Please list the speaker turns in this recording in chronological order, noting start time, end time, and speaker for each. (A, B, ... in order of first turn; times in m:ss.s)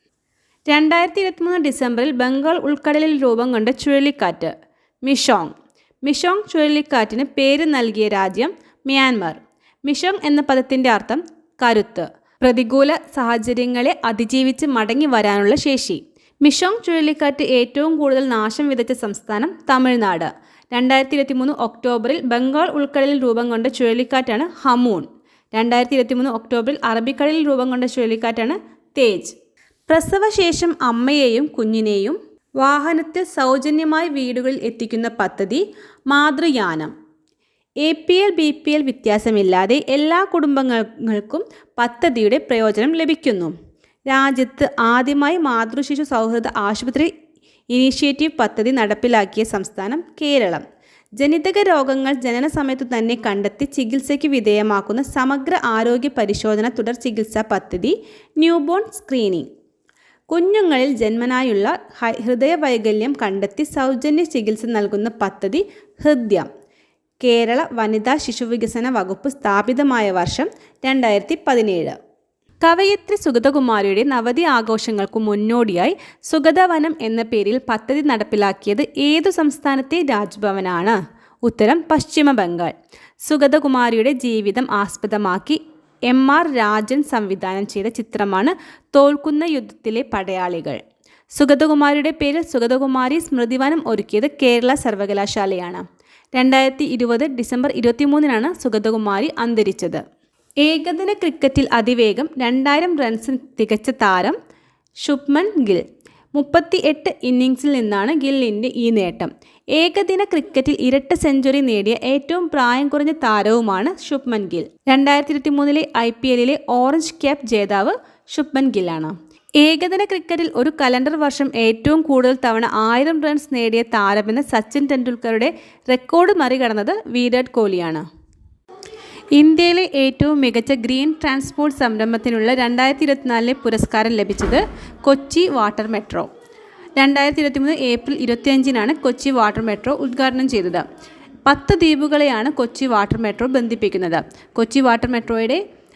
0:00.7-0:29.3 A
0:29.9-0:36.9 A
0:37.8-0:43.5 A
0:44.1-0:47.1 A
0:47.7-0:50.6 A
0:51.2-0:59.5 A
1:00.3-1:06.5 A
1:07.2-1:12.0 A
1:12.6-1:30.8 A
1:31.3-1:40.0 A
1:40.6-1:44.4 A
1:45.0-2:08.0 A
2:09.3-2:16.3 A
2:17.0-2:20.8 A
2:21.4-2:25.6 A